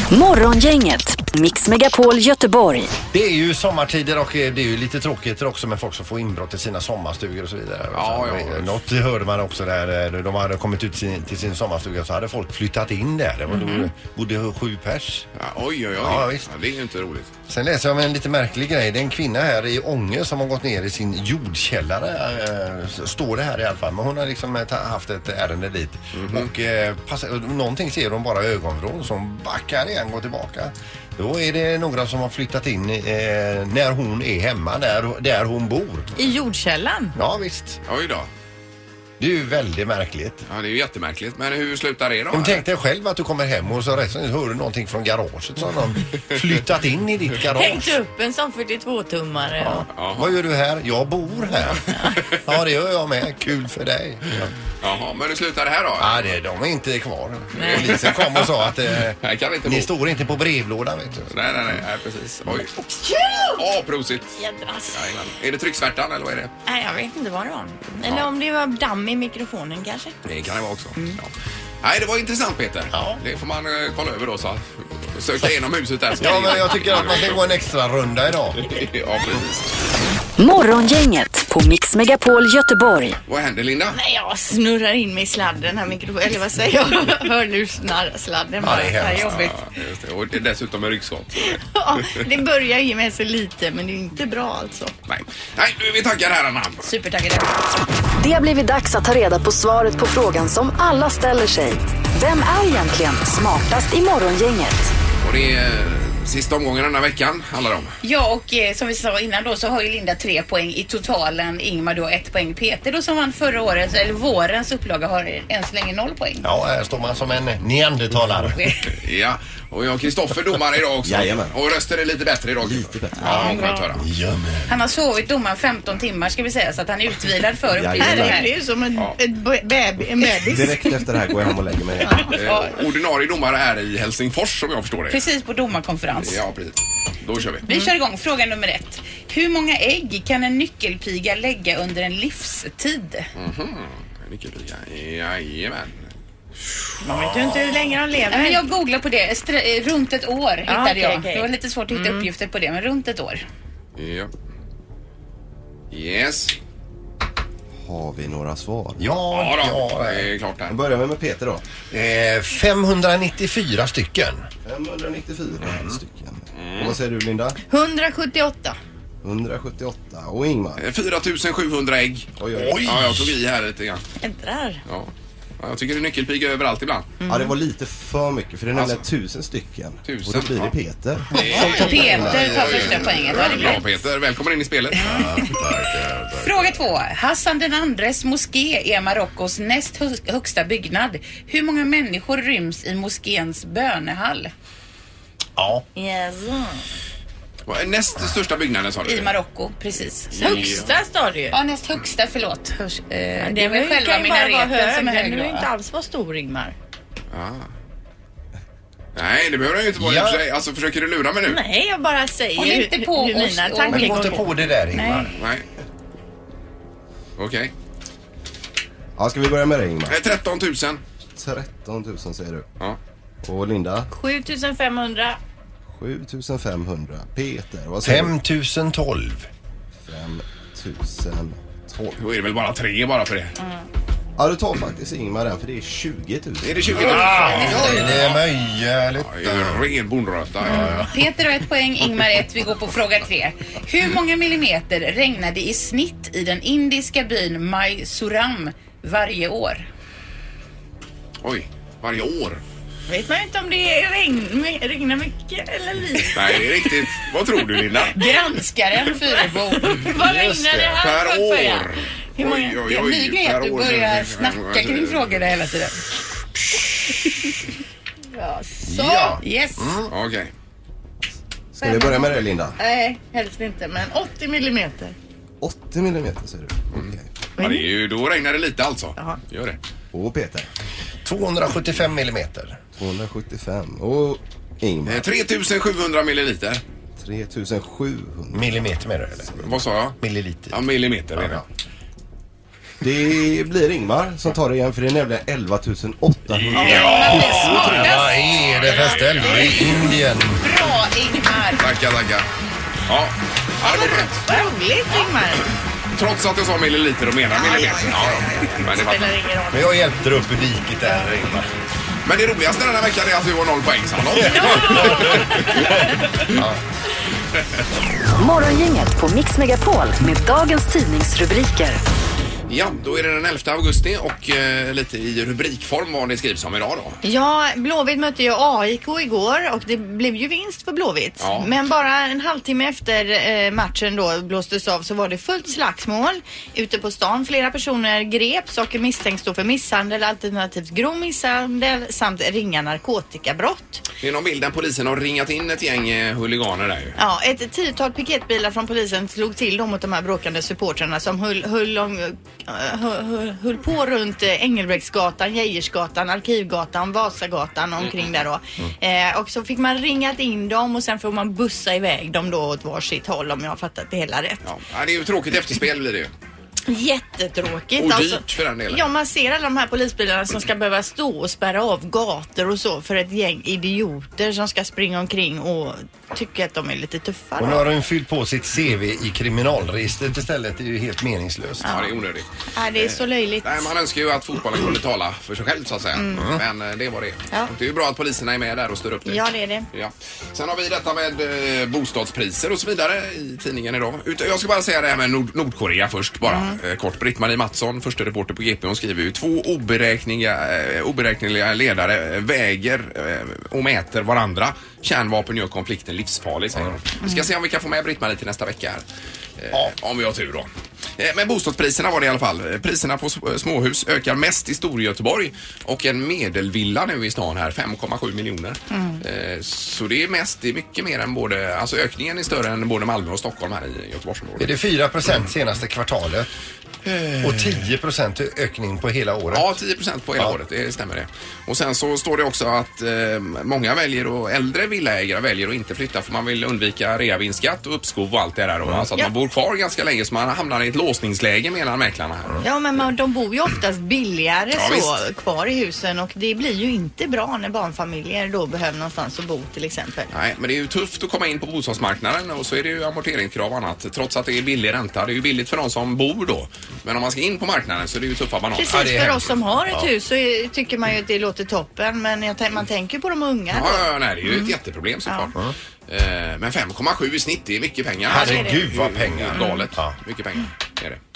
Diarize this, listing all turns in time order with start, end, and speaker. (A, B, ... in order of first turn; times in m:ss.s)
0:00.1-0:02.9 A
0:03.1-0:15.3 B
0:07.9-0:08.8 C
0:15.4-0:17.3 C
0:16.0-0:16.5 B
0:17.5-0:36.1 B
0:26.1-0:26.5 C
0:36.2-0:37.2 D
0:37.2-0:37.8 B
0:37.9-0:38.3 C
0:39.2-0:40.4 B
0:40.5-0:42.6 C
0:42.3-0:48.0 B
0:47.5-0:49.9 D
0:49.6-0:51.8 B
0:49.9-0:50.3 C
0:51.9-0:52.2 D
0:52.4-0:54.5 B
0:54.8-0:56.3 C
0:56.0-1:01.4 B
0:57.6-0:58.0 D
0:57.6-0:59.9 C
1:01.3-1:02.7 C
1:02.7-1:03.6 D
1:03.6-1:06.5 C
1:04.4-1:05.0 D
1:06.7-1:10.2 D
1:10.2-1:11.3 C
1:11.8-1:17.4 C
1:12.9-1:13.2 B
1:16.2-1:18.7 B
1:18.6-1:19.8 C
1:20.4-1:23.2 A
1:23.3-1:24.0 C
1:23.9-1:29.6 D
1:28.6-1:29.4 B
1:29.2-1:32.1 C
1:31.5-1:34.9 D
1:35.1-1:36.9 C
1:36.9-1:37.5 D
1:38.2-1:44.9 A
1:45.2-1:47.9 C
1:48.0-1:56.5 E
1:56.4-1:58.6 B
1:59.0-2:04.0 C
2:01.0-2:01.6 F
2:02.6-2:03.5 F
2:03.2-2:04.7 B
2:03.3-2:03.8 D
2:04.7-2:08.5 E
2:07.7-2:08.4 F
2:08.0-2:10.9 D
2:10.4-2:12.2 F
2:12.0-2:12.3 D
2:12.3-2:12.6 E
2:12.3-2:15.2 C
2:15.1-2:16.4 E
2:16.2-2:17.6 C
2:17.7-2:17.9 D
2:17.7-2:23.3 E
2:23.4-2:26.1 C
2:27.0-2:28.6 D
2:27.2-2:27.6 C
2:28.3-2:33.4 E
2:30.7-2:32.3 D
2:34.0-2:34.3 C
2:35.9-2:36.6 C
2:37.8-2:39.1 F
2:39.0-2:40.3 B
2:39.3-2:40.8 C
2:40.7-2:41.6 F
2:41.9-2:44.4 B
2:44.6-2:47.6 F
2:46.6-2:47.0 C
2:47.7-2:48.8 D
2:49.2-2:50.8 F
2:50.8-2:54.0 C
2:52.4-2:52.8 F
2:52.6-2:53.3 B
2:54.2-2:54.8 D
2:54.9-2:57.1 C
2:57.2-2:57.6 D
2:57.3-3:02.9 F
2:58.7-2:59.0 C
3:00.1-3:00.7 C
3:01.3-3:05.4 C
3:01.5-3:03.8 D
3:01.6-3:03.8 E
3:02.3-3:02.9 B
3:05.0-3:05.5 D
3:05.0-3:06.6 B
3:06.4-3:14.5 E
3:15.6-3:15.8 B
3:16.0-3:16.8 D
3:17.7-3:19.3 C
3:19.0-3:20.8 E
3:20.3-3:20.9 C
3:20.4-3:21.6 D
3:21.5-3:25.7 E
3:23.4-3:26.8 D
3:27.3-3:27.7 C
3:29.2-3:31.6 C
3:30.0-3:30.4 B
3:31.5-3:35.3 D
3:32.6-3:34.4 E
3:33.9-3:35.3 B
3:35.3-3:35.7 C
3:37.4-3:37.7 C
3:39.2-3:40.2 F
3:40.1-3:41.0 C
3:41.4-3:42.7 F
3:43.4-3:44.1 F
3:44.1-3:45.4 D
3:45.9-3:48.3 F
3:48.0-3:49.5 B
3:50.1-3:52.2 F
3:52.2-3:53.5 C
3:54.4-3:57.4 F
3:56.6-3:58.4 C
3:57.0-3:59.8 B
3:57.5-3:58.1 E
3:57.6-3:58.0 D
3:59.2-4:01.0 C
4:00.6-4:01.1 B
4:01.0-4:09.9 E
4:11.4-4:12.6 C
4:13.1-4:17.2 D
4:16.3-4:18.2 C
4:17.7-4:22.8 D
4:18.2-4:19.9 E
4:20.2-4:21.0 B
4:21.0-4:25.4 C
4:22.8-4:26.0 E
4:28.3-4:29.4 D
4:28.8-4:30.1 B
4:29.4-4:29.8 E
4:30.1-4:30.5 C
4:31.7-4:32.8 F
4:31.8-4:35.2 D
4:35.6-4:37.3 F
4:37.0-4:39.8 C
4:37.6-4:37.9 D
4:40.1-4:40.7 F
4:41.2-4:42.8 B
4:43.0-4:45.3 F
4:45.1-4:46.8 C
4:47.2-4:48.7 F
4:48.5-4:49.6 B
4:49.6-4:50.2 C
4:50.2-4:50.8 B
4:50.7-4:51.6 C
4:51.4-4:51.6 B
4:53.0-4:58.0 F
4:56.5-5:00.0 C
4:56.8-4:57.9 D
4:56.8-4:58.4 E
4:57.3-5:00.6 B
4:59.5-5:00.0 D
5:00.6-5:01.8 E
5:01.8-5:02.5 C
5:03.1-5:04.6 C
5:03.8-5:05.7 D
5:06.2-5:09.4 C
5:07.5-5:10.0 D
5:09.7-5:11.7 B
5:12.2-5:16.6 C
5:14.3-5:16.8 B
5:14.4-5:16.0 D
5:18.4-5:22.0 A
5:22.7-5:27.2 C
5:27.2-5:44.0 D
5:31.4-5:31.7 C
5:44.2-5:47.2 C
5:47.2-6:04.6 D
5:58.0-5:58.3 C
6:04.6-6:06.3 C
6:06.9-6:17.9 D
6:08.0-6:09.1 C
6:17.6-6:21.9 B
6:21.8-6:22.1 D
6:21.8-6:49.0 C
6:22.8-6:23.9 D
6:26.2-6:26.5 D
6:26.4-6:26.6 B
6:29.2-6:29.9 D
6:36.4-6:36.8 D
6:49.6-7:04.7 C
6:58.9-6:59.2 D
7:04.6-7:06.5 B
7:07.1-7:07.7 C
7:07.4-7:09.8 B
7:09.5-7:22.6 C
7:22.6-7:30.3 D
7:24.7-7:25.1 C
7:30.3-7:39.3 C
7:38.8-7:44.7 D
7:38.9-7:40.1 B
7:43.7-7:45.5 C
7:45.3-7:45.5 D
7:46.1-7:51.2 C
7:48.3-7:48.9 D
7:48.3-7:50.2 B
7:49.5-7:49.9 D